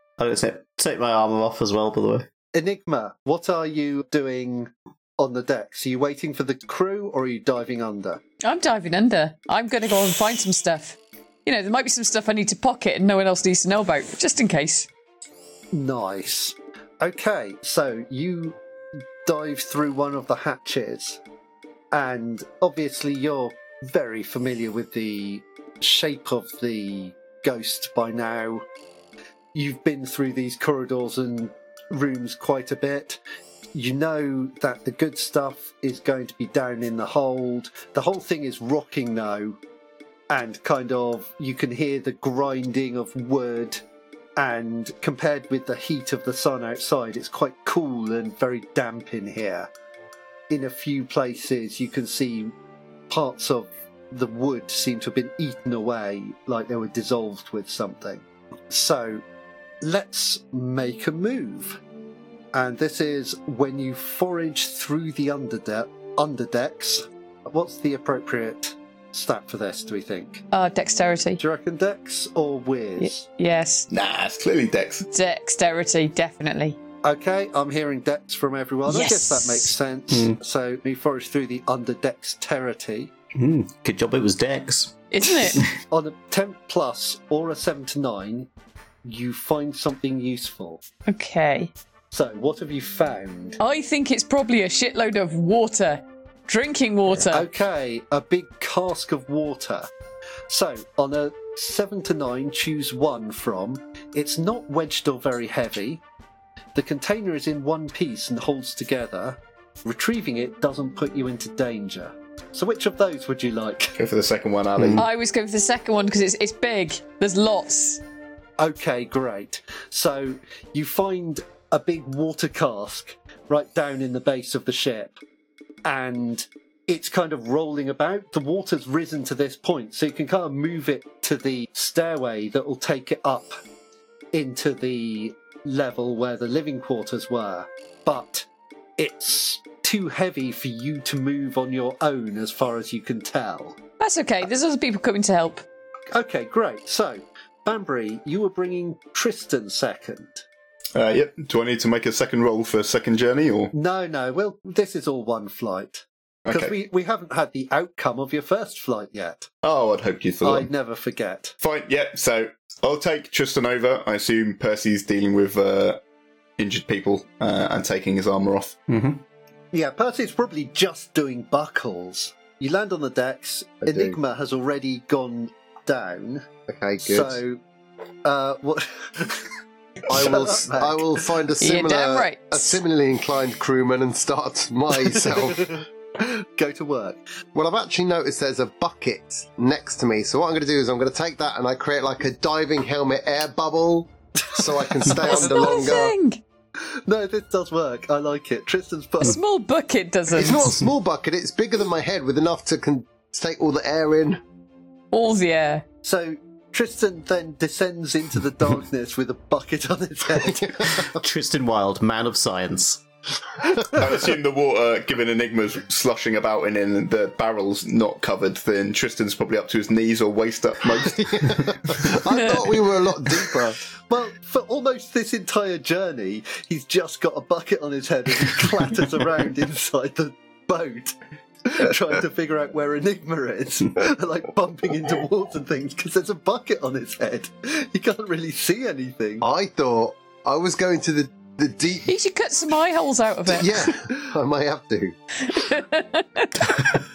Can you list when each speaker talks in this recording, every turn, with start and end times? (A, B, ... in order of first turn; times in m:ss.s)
0:00.2-0:02.3 A
0:02.5-0:08.2 B
0:08.4-0:14.9 C
0:15.7-0:18.6 B
0:19.2-0:21.2 B
0:21.9-0:28.6 B
0:29.5-0:33.2 B
0:33.7-0:39.6 B
0:40.3-0:43.8 B
0:44.4-0:49.7 B
0:50.5-0:52.5 B
0:53.1-0:59.2 B
0:59.8-1:01.8 B
1:02.5-1:10.4 B
1:10.5-1:11.4 C
1:11.4-1:13.2 B
1:13.0-1:13.9 C
1:13.9-1:15.0 D
1:15.1-1:16.8 C
1:17.0-1:23.1 B
1:18.9-1:19.7 C
1:20.1-1:20.4 A
1:23.3-1:25.0 A
1:25.1-1:25.6 C
1:25.9-1:28.5 B
1:29.0-1:30.8 B
1:31.0-1:31.7 C
1:32.1-1:33.6 B
1:33.6-1:37.5 C
1:37.2-1:39.9 B
1:40.5-1:46.0 B
1:46.7-1:54.0 B
1:54.0-1:55.0 D
1:54.8-1:55.0 A
1:55.0-1:58.0 C
1:58.6-2:05.2 B
2:05.8-2:13.6 B
2:14.3-2:23.8 B
2:24.0-2:25.6 C
2:26.1-2:30.4 B
2:30.9-2:33.7 D
2:33.7-2:39.5 B
2:36.4-2:36.7 D
2:39.6-2:40.7 D
2:40.4-2:41.5 B
2:41.6-2:46.0 D
2:46.6-2:48.9 D
2:48.9-2:49.2 A
2:49.7-2:56.5 B
2:53.8-2:54.2 E
2:56.7-2:57.4 E
2:57.0-2:57.6 B
2:58.2-2:59.5 B
3:00.1-3:05.8 E
3:00.1-3:01.3 B
3:01.6-3:02.8 C
3:06.2-3:07.2 B
3:07.5-3:16.1 E
3:14.6-3:16.0 B
3:15.1-3:16.4 C
3:16.8-3:19.4 B
3:19.2-3:20.8 C
3:20.3-3:24.4 E
3:25.1-3:25.8 C
3:26.0-3:31.1 B
3:30.4-3:31.1 E
3:31.2-3:33.0 A
3:33.9-3:42.1 D
3:41.0-3:43.8 E
3:42.3-3:42.6 C
3:44.1-3:59.4 B
3:59.4-4:02.1 E
4:02.0-4:03.9 C
4:03.5-4:05.1 E
4:05.5-4:06.8 C